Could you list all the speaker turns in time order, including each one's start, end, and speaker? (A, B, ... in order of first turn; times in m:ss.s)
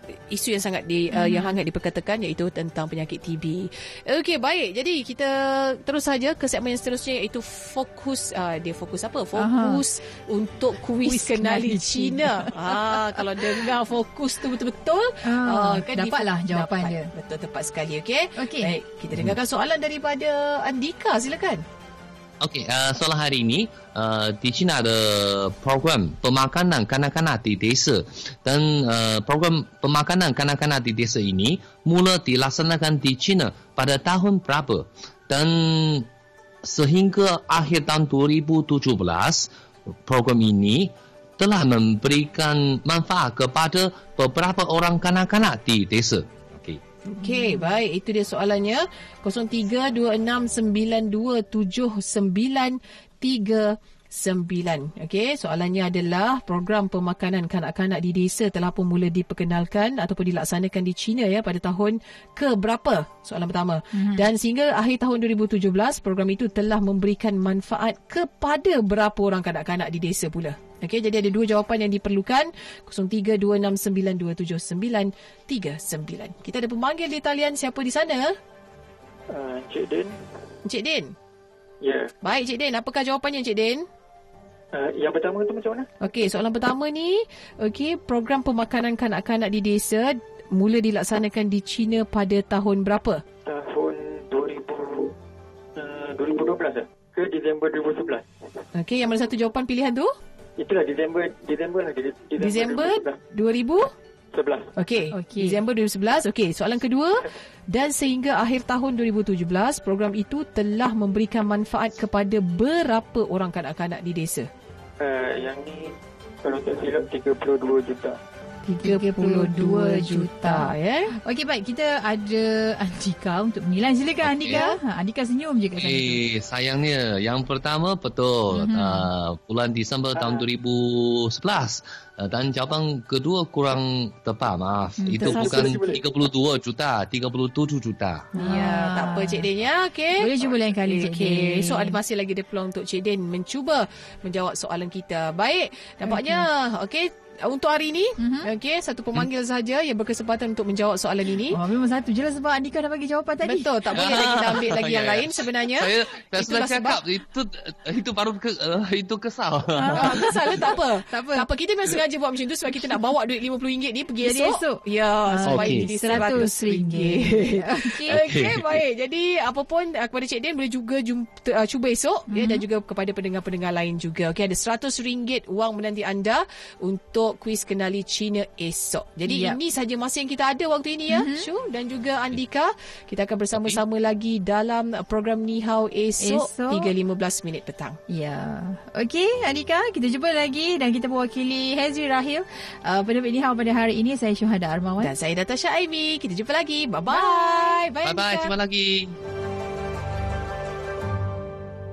0:00.3-0:21.6 A
0:01.1-0:01.6 B
0:09.4-0:09.8 B
0:11.0-0:13.1 B
0:15.2-0:17.1 B
0:18.4-0:18.7 B
0:22.4-0:36.1 C
0:36.6-0:39.5 C
0:40.0-0:46.8 C
0:47.1-1:18.3 A
0:47.2-0:47.6 B
1:03.9-1:04.2 B
1:19.3-1:20.2 D
1:20.6-1:21.1 A
1:21.8-1:22.1 D
1:22.2-1:23.8 A
1:24.7-1:25.9 D
1:26.0-1:33.2 A
1:33.4-1:35.1 D
1:35.8-1:38.3 D
1:38.7-1:40.1 A
1:40.6-1:43.2 D
1:42.4-1:43.9 A
1:44.3-1:44.7 D
1:44.8-1:54.5 A
1:45.1-1:45.6 B
1:55.0-1:55.9 D
1:56.4-1:58.2 D
1:58.6-2:00.7 B
1:58.8-2:01.1 A
2:01.2-2:06.2 B
2:04.2-2:04.6 C
2:04.5-2:04.8 A
2:05.8-2:18.3 C
2:08.5-2:09.1 B
2:10.1-2:10.4 D
2:15.0-2:15.6 B
2:15.2-2:16.2 D
2:15.2-2:15.8 A
2:18.4-2:20.3 A
2:18.4-2:19.5 B
2:20.2-2:22.0 B
2:20.8-2:31.6 A
2:26.1-2:26.4 B
2:28.2-2:28.5 B
2:31.5-2:34.1 B
2:33.4-2:37.0 A
2:34.0-2:40.3 C
2:39.8-2:41.4 B
2:39.8-3:08.0 A
2:44.2-2:48.2 B
2:45.5-2:46.2 C
2:48.1-2:48.7 C
2:52.3-2:52.6 B
2:59.3-2:59.6 B
3:01.1-3:01.5 B
3:03.5-3:03.8 C
3:06.2-3:06.9 B
3:08.1-3:15.1 B
3:15.0-3:18.5 A
3:17.1-3:17.7 B
3:18.0-3:19.2 C